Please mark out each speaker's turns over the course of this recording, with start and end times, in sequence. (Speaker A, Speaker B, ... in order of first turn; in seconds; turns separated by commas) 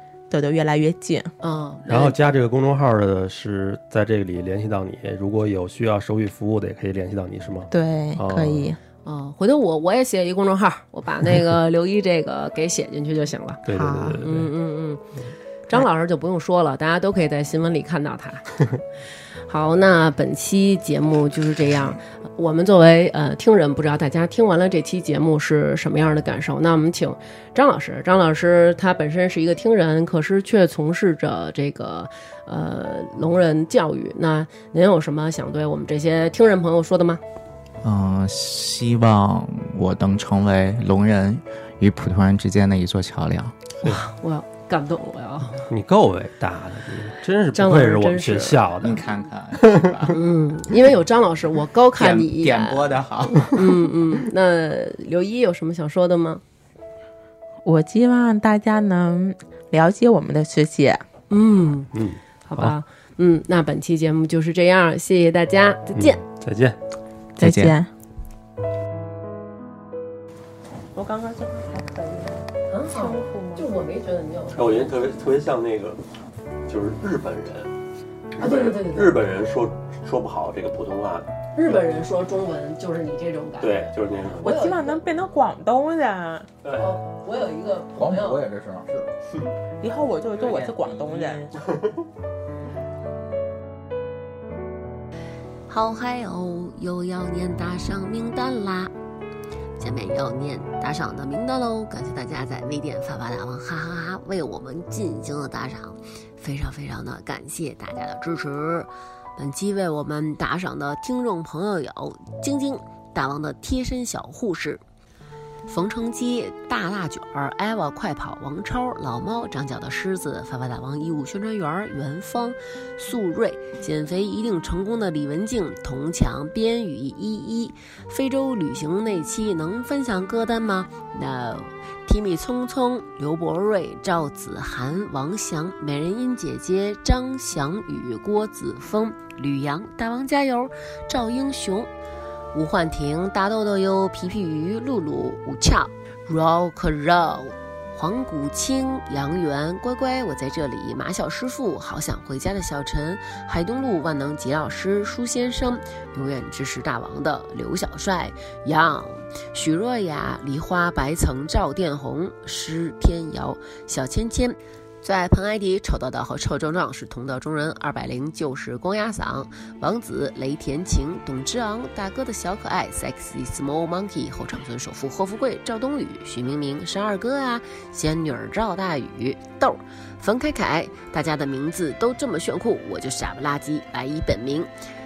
Speaker A: 0.3-1.3, Speaker B: 1.4-2.1, Speaker C: 1.9-8.7, Speaker A: 7.7-8.8, Speaker B: 9.1-13.7, Speaker C: 13.7-14.5, Speaker A: 13.7-14.2, Speaker B: 14.2-15.0, Speaker B: 15.7-18.5, Speaker B: 19.4-37.2, Speaker D: 37.8-43.6, Speaker B: 43.8-45.7, Speaker C: 45.7-49.1, Speaker B: 47.5-48.6, Speaker D: 48.8-50.2, Speaker C: 49.6-50.0, Speaker B: 50.1-52.9, Speaker D: 52.0-53.5, Speaker B: 53.4-56.4, Speaker A: 57.6-61.0, Speaker B: 61.3-61.9, Speaker C: 61.9-62.7, Speaker B: 62.5-66.2, Speaker C: 66.0-66.8, Speaker A: 67.4-67.9, Speaker D: 67.4-67.8, Speaker A: 70.9-73.7, Speaker B: 72.7-75.0, Speaker C: 74.5-76.0, Speaker C: 76.7-77.7, Speaker C: 78.3-81.3, Speaker B: 78.4-79.2, Speaker B: 81.5-85.0, Speaker C: 83.6-84.6, Speaker A: 84.4-86.5, Speaker C: 86.6-87.0, Speaker B: 86.8-88.7, Speaker A: 89.8-91.5, Speaker C: 90.4-91.9, Speaker E: 95.7-98.9, Speaker E: 99.8-114.8, Speaker E: 115.7-141.9, Speaker E: 142.5-184.7